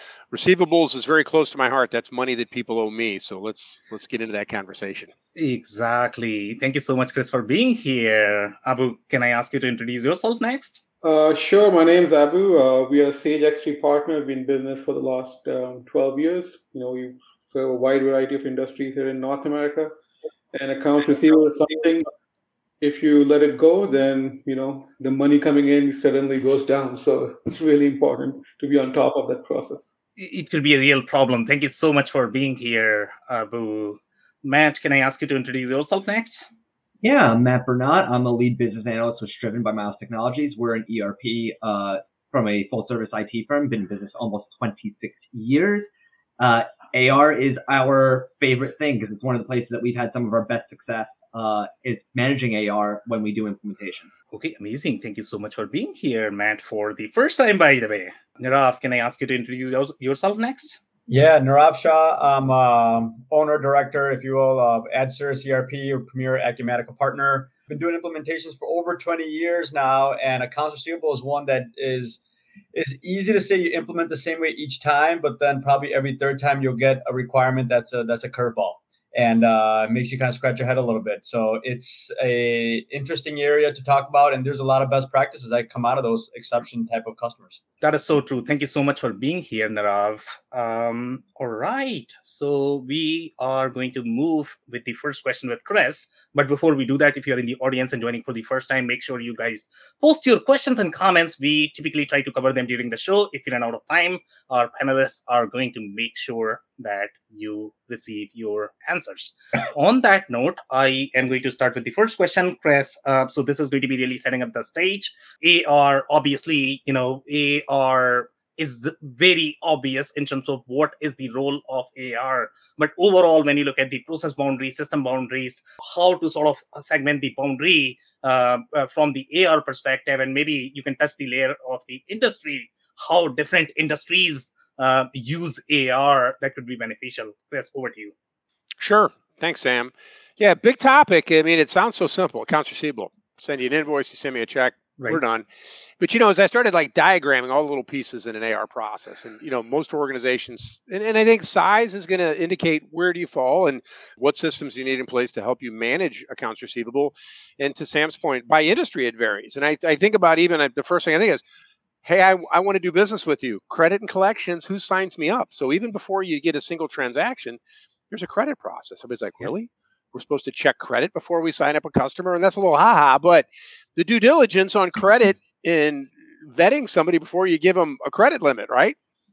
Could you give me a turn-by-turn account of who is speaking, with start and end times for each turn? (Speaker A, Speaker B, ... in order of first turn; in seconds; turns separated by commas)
Speaker A: 0.3-5.1, Speaker B: 5.4-10.8, Speaker C: 11.0-19.9, Speaker C: 20.5-22.1, Speaker C: 22.8-29.9, Speaker B: 30.2-36.4, Speaker D: 37.0-45.9, Speaker D: 46.4-54.1, Speaker B: 54.3-60.8, Speaker E: 61.1-72.2, Speaker E: 72.7-87.6, Speaker B: 87.8-138.1, Speaker A: 138.8-145.5, Speaker B: 145.0-145.2, Speaker A: 146.0-161.4, Speaker A: 162.0-179.0